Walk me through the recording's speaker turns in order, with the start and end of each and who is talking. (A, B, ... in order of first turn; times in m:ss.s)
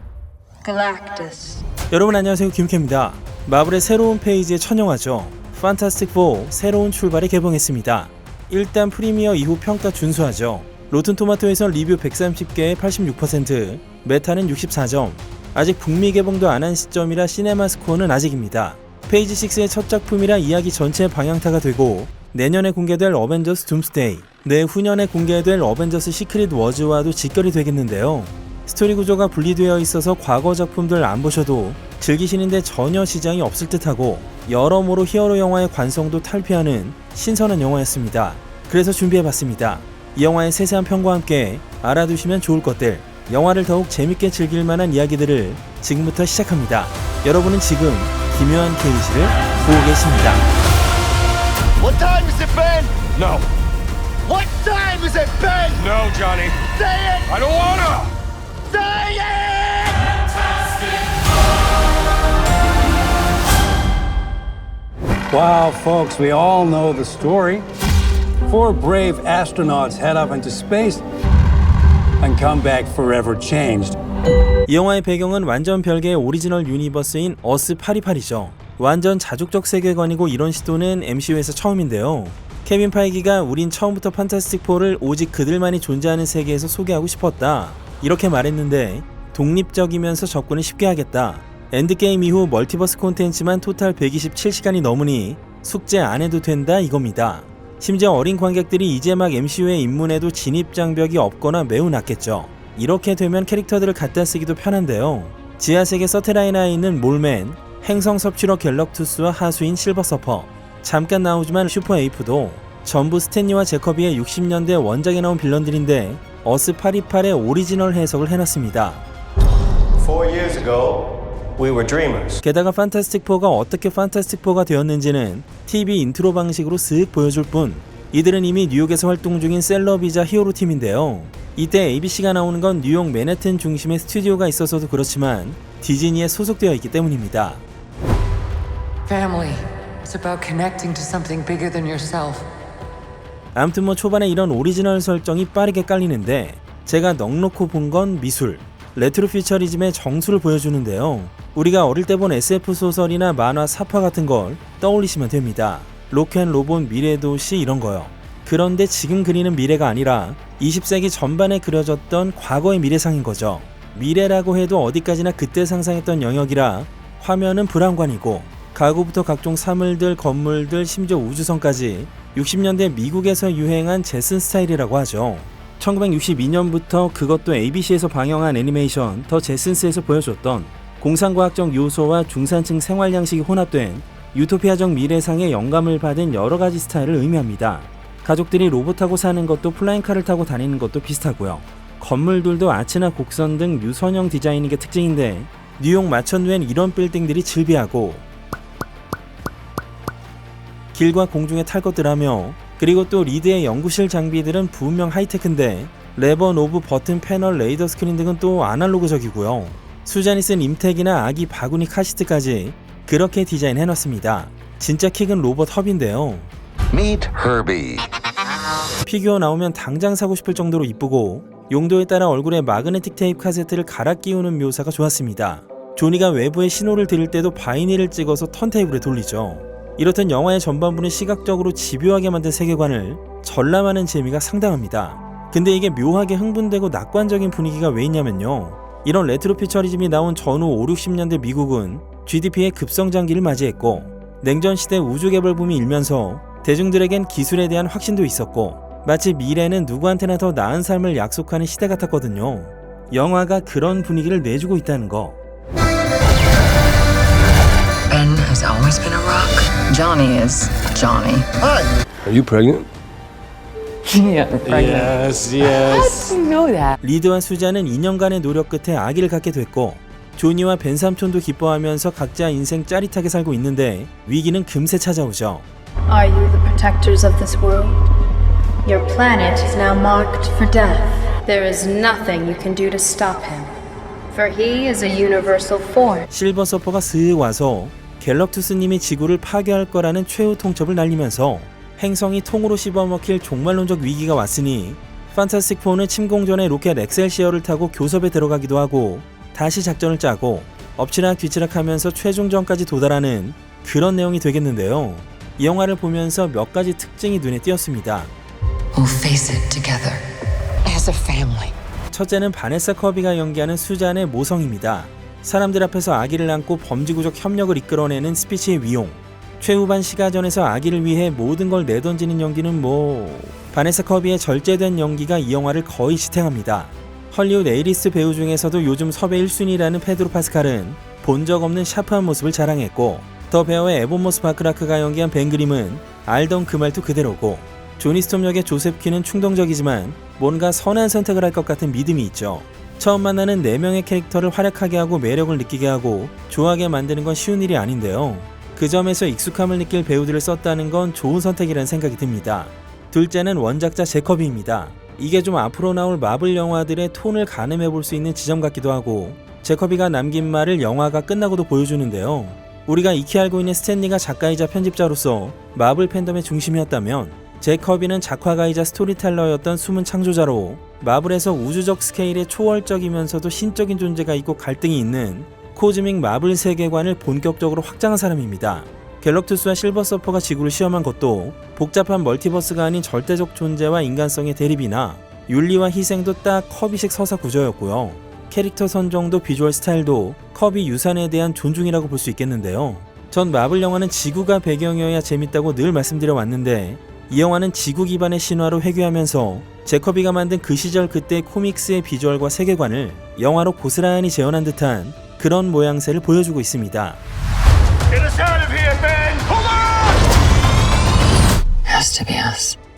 0:00.6-0:01.6 A
0:01.9-0:50.4 B
0:51.8-0:53.1 C
0:54.2-0:55.8 C
0:55.7-0:56.7 D
0:56.7-0:57.3 C
0:57.3-0:58.1 D
0:58.7-1:00.0 C
1:05.3-1:07.6 E
1:08.4-1:11.0 E
1:12.2-1:14.0 E
1:14.7-1:59.0 B
2:00.0-2:02.4 C
2:02.4-2:17.6 B
2:19.0-2:22.5 F
2:23.5-3:18.2 B
3:20.9-3:36.5 B
3:36.9-3:38.1 C
3:39.0-4:15.4 B
4:18.1-4:21.5 F
4:22.2-4:22.9 D
4:24.0-4:25.1 F
4:24.6-4:26.3 D
4:25.8-4:26.9 F
4:27.0-4:35.6 B
4:36.1-4:38.0 A
4:38.8-4:43.7 A
4:44.3-4:46.3 A
4:46.3-5:08.3 B
5:08.9-5:10.2 F
5:10.8-5:11.7 F
5:12.1-6:47.2 B
6:48.1-6:50.1 D
6:51.9-6:52.8 F